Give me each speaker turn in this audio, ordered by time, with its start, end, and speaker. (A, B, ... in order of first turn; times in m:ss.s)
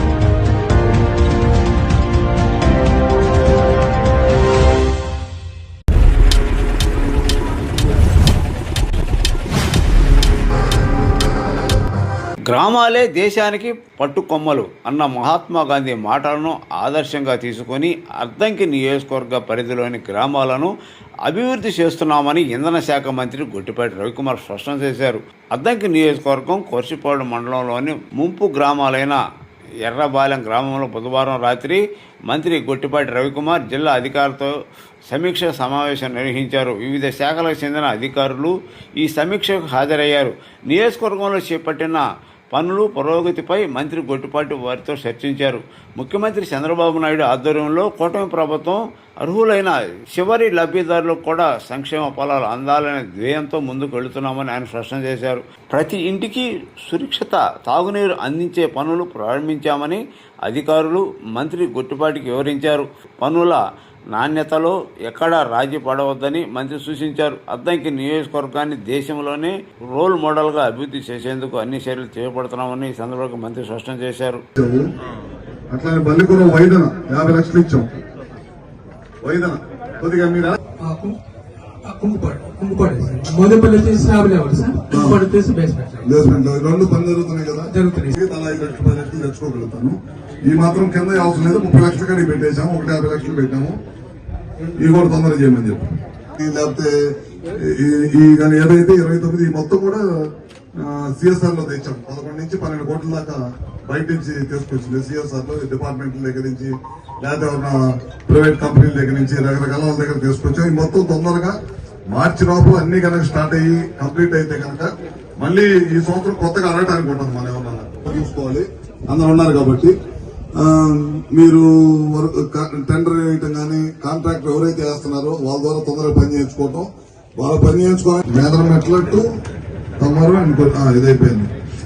0:01.0-0:01.7 A
0:12.5-0:20.7 B
0:21.3-0:29.2 B
0:29.8-0:34.5 B
0:35.1-1:03.6 B
1:04.1-1:14.4 B
1:14.6-1:14.9 C
1:15.7-1:17.9 C
1:19.2-1:20.6 C
1:20.8-1:21.2 A
1:21.8-1:26.2 A
1:24.9-1:25.3 C
1:26.0-1:33.8 C
1:27.7-1:28.2 A
1:34.7-1:51.6 C
1:52.1-2:00.0 C
2:00.6-2:09.3 C
2:10.0-2:11.5 C